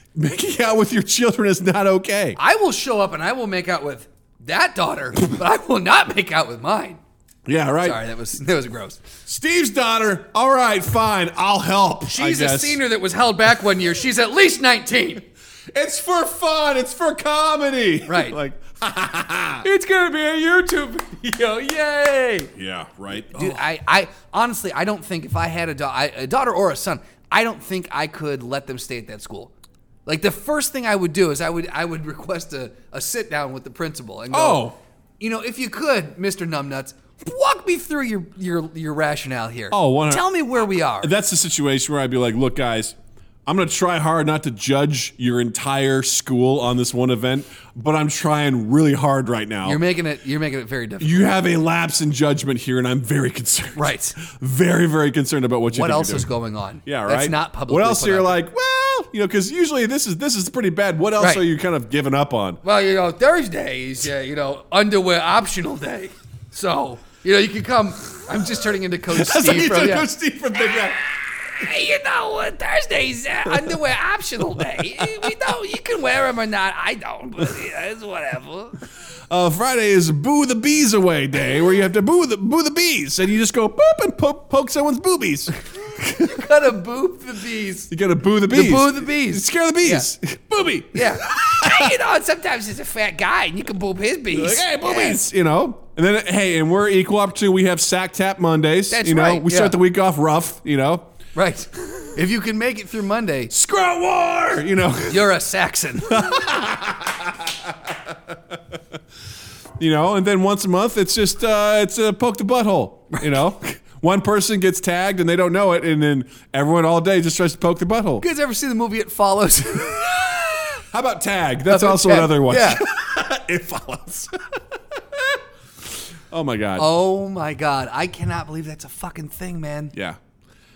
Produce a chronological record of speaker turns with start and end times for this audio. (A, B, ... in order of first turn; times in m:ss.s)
0:00.1-0:02.4 A
0:02.4-0:07.0 B
0:07.4-0:08.0 A
0:07.8-0:09.0 B
0:09.2-0:12.8 A
0:12.1-0:15.2 B
0:15.7-0:19.6 A
0:18.0-0:18.4 B
0:19.6-0:22.5 B
0:22.5-0:23.6 A
0:23.3-0:29.5 B
0:30.0-0:41.1 B
0:34.3-0:34.8 A
0:39.7-0:40.2 A
0:40.9-0:42.9 A
0:43.4-0:49.8 A
0:49.6-0:51.3 B
0:51.0-0:56.3 A
0:53.8-0:54.2 B
0:55.7-0:58.4 B
0:56.8-1:02.6 A
1:01.2-1:01.4 B
1:02.6-1:10.1 B
1:09.1-1:11.0 A
1:11.4-1:18.8 B
1:13.4-1:13.8 A
1:14.6-1:15.3 A
1:19.3-1:26.5 A
1:25.9-1:27.9 B
1:27.9-1:31.9 A
1:28.5-1:30.1 B
1:30.9-1:35.2 B
1:34.3-1:41.1 A
1:38.9-1:39.8 B
1:41.3-1:43.5 B
1:43.5-1:45.3 A
1:45.1-1:46.4 B
1:46.1-1:48.6 A
1:49.8-1:58.2 A
1:58.2-2:00.8 B
2:00.2-2:05.4 A
2:01.7-2:02.8 B
2:06.3-2:06.9 A
2:06.8-2:09.9 B
2:09.9-2:10.2 A